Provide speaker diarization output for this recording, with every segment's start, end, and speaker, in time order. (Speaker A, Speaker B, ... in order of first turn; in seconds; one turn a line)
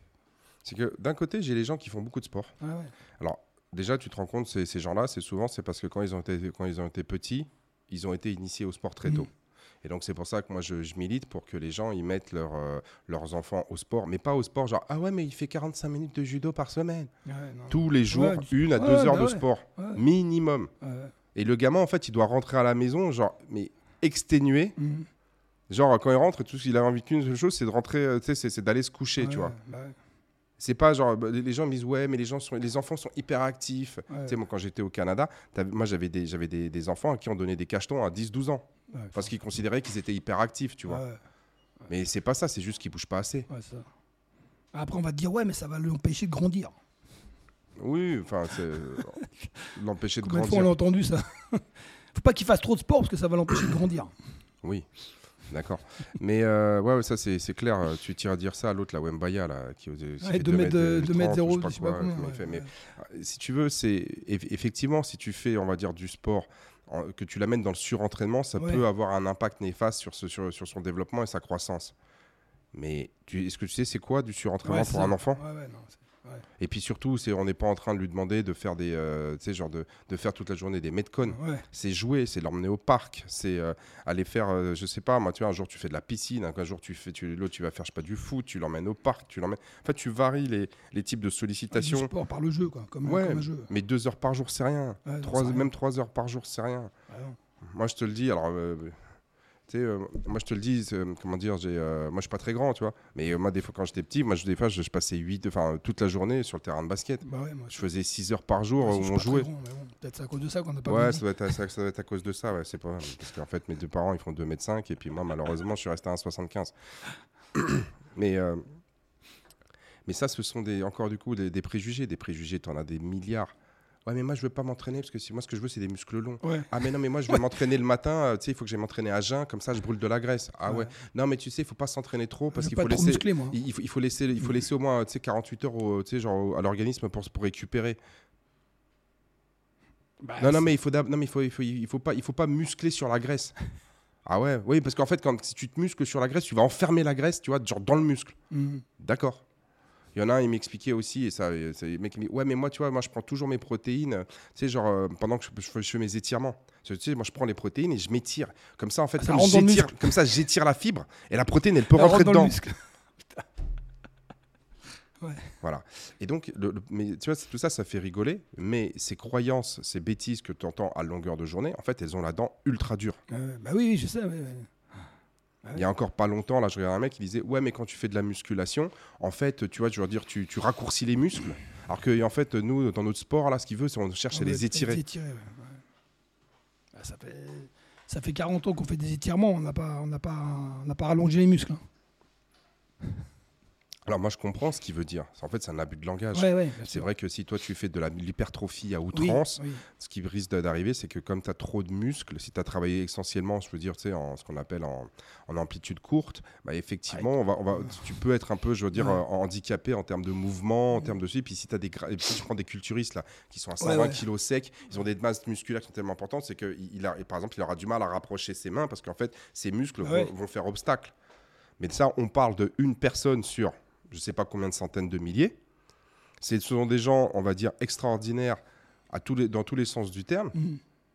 Speaker A: 0.6-2.5
Speaker B: 2.6-2.9
Speaker A: 3.2-9.3
Speaker A: 9.8-17.1
Speaker B: 17.2-20.0
Speaker A: 17.7-20.7
Speaker B: 20.8-21.1
Speaker A: 21.4-24.8
Speaker B: 24.8-25.1
Speaker A: 25.7-29.6
Speaker B: 29.2-30.0
Speaker A: 30.6-41.0
Speaker B: 34.1-34.4
Speaker B: 38.9-39.3
Speaker B: 40.9-41.2
Speaker A: 41.9-43.5
Speaker B: 43.5-43.9
Speaker B: 44.7-46.8
Speaker A: 47.8-50.7
Speaker B: 50.2-54.1
Speaker A: 55.5-71.9
Speaker B: 60.2-62.7
Speaker B: 68.6-68.8
Speaker A: 72.7-75.4
Speaker B: 74.6-76.4
Speaker A: 76.6-92.1
Speaker B: 81.3-81.7
Speaker B: 91.7-93.7
Speaker A: 93.0-96.9
Speaker B: 95.0-95.7
Speaker B: 97.1-97.4
Speaker A: 97.6-99.0
Speaker A: 99.7-109.5
Speaker B: 107.2-107.8
Speaker B: 108.8-111.2
Speaker A: 110.8-116.7
Speaker A: 117.5-118.8
Speaker A: 120.1-123.5
Speaker A: 124.0-138.0
Speaker B: 126.4-126.7
Speaker B: 132.5-133.6
Speaker B: 140.2-140.8
Speaker A: 140.4-143.5
Speaker A: 144.2-148.3
Speaker B: 148.5-148.8
Speaker A: 149.0-149.4
Speaker A: 150.2-162.6
Speaker B: 159.2-160.2
Speaker B: 161.9-163.4
Speaker B: 165.2-165.5
Speaker A: 165.6-173.2
Speaker B: 173.3-175.0
Speaker A: 175.7-185.0
Speaker B: 184.3-185.8
Speaker B: 186.9-191.8
Speaker A: 194.1-221.1
Speaker B: 196.3-197.1
Speaker B: 199.1-199.8
Speaker B: 208.9-209.2
Speaker B: 213.8-214.2
Speaker B: 220.0-220.3
Speaker A: 221.8-225.6
Speaker A: 226.4-230.6
Speaker B: 230.5-230.8